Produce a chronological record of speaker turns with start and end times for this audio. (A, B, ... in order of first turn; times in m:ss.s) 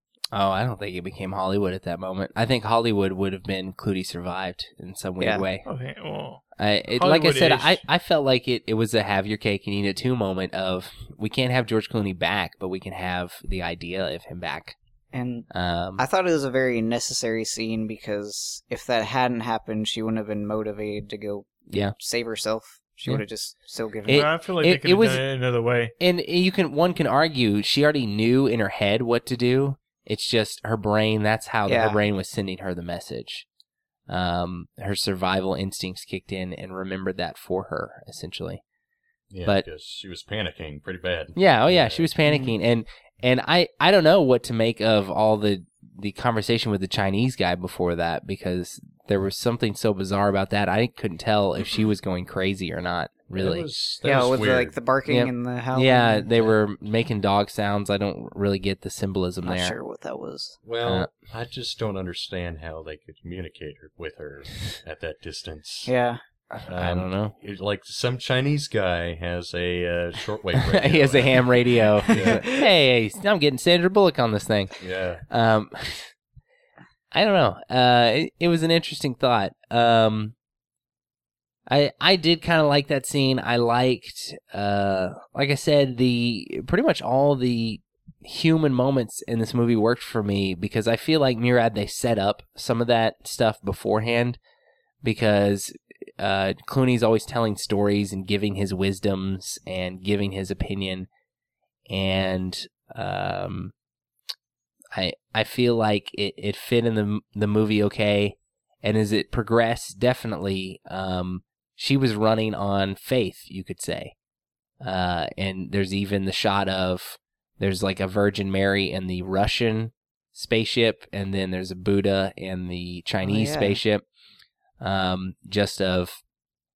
0:00.3-0:05.6 A
0:05.2-0:05.4 B
0:05.6-0:07.8 C
0:06.6-0:14.7 A
0:15.1-0:24.3 B
0:15.5-0:16.0 A
0:21.7-0:21.9 A
0:24.0-0:25.2 A
0:24.1-0:25.9 C
0:26.0-0:33.4 A
0:31.7-0:32.0 B
0:34.1-0:38.6 A
0:39.3-0:42.1 D
0:41.4-0:53.7 A
0:42.2-0:42.5 B
0:53.3-0:54.8 D
0:54.0-0:56.6 B
0:55.1-0:59.8 A
0:59.4-1:00.6 B
1:00.6-1:05.9 D
1:00.8-1:01.1 A
1:05.8-1:06.2 B
1:06.5-1:07.3 A
1:06.7-1:12.4 D
1:10.6-1:14.7 A
1:12.1-1:12.5 B
1:14.8-1:15.2 D
1:15.3-1:16.1 A
1:17.1-1:20.3 A
1:21.7-1:34.4 A
1:35.0-1:41.1 A
1:41.9-1:43.7 A
1:44.9-1:54.1 A
1:54.8-2:04.0 A
2:03.2-2:03.8 B
2:04.8-2:06.2 A